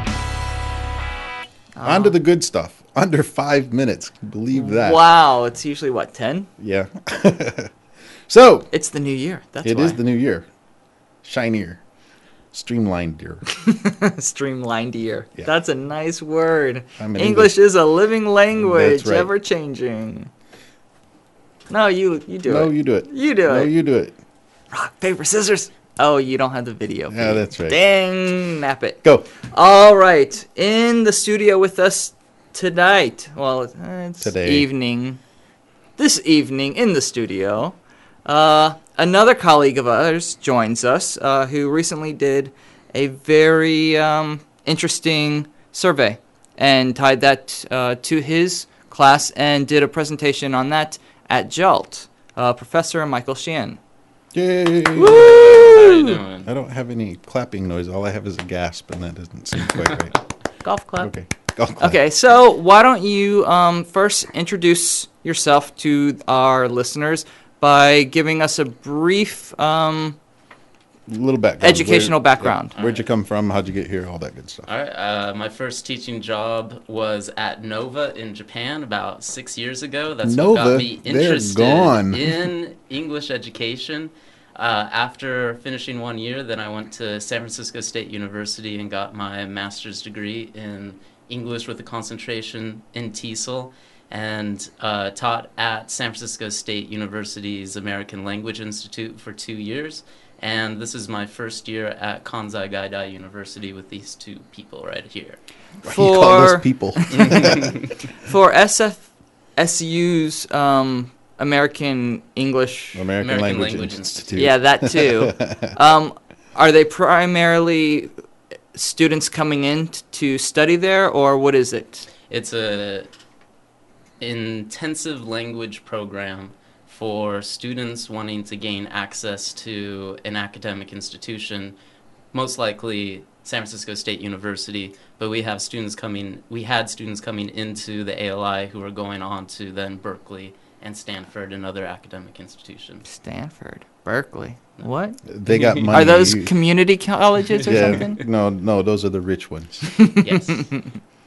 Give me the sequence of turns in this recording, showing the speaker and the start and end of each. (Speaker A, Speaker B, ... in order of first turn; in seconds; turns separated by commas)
Speaker A: 1.8-2.2, Speaker B: 1.8-5.0, Speaker A: 4.5-6.5, Speaker B: 6.6-7.7, Speaker B: 8.3-8.7, Speaker A: 8.7-10.0, Speaker B: 9.6-10.5, Speaker B: 11.2-11.8, Speaker B: 12.5-13.5, Speaker A: 13.6-20.3, Speaker B: 17.0-17.5, Speaker B: 18.6-19.3, Speaker A: 21.7-23.7, Speaker B: 22.5-24.2, Speaker A: 24.7-35.2, Speaker B: 27.1-27.8, Speaker B: 29.0-29.3, Speaker B: 34.2-34.7, Speaker A: 36.0-53.8, Speaker B: 54.3-55.2, Speaker A: 55.0-56.2, Speaker C: 55.0-56.5, Speaker B: 56.5-60.2, Speaker A: 60.6-61.1, Speaker B: 61.0-62.0, Speaker A: 61.8-70.2, Speaker B: 71.1-74.7, Speaker A: 71.6-72.7, Speaker C: 72.8-73.0, Speaker C: 74.7-105.4, Speaker B: 80.2-82.4, Speaker A: 105.8-107.6, Speaker B: 105.8-107.7, Speaker C: 107.1-108.0, Speaker A: 108.2-113.0, Speaker B: 112.9-115.7, Speaker C: 113.2-114.5, Speaker A: 114.3-118.1, Speaker A: 118.7-122.1, Speaker C: 122.3-123.1, Speaker C: 124.2-131.8, Speaker C: 132.3-143.1, Speaker A: 143.1-148.2, Speaker B: 145.2-146.5, Speaker C: 145.5-145.9, Speaker C: 147.5-148.1, Speaker B: 147.6-150.0, Speaker A: 150.0-151.0, Speaker C: 150.2-150.8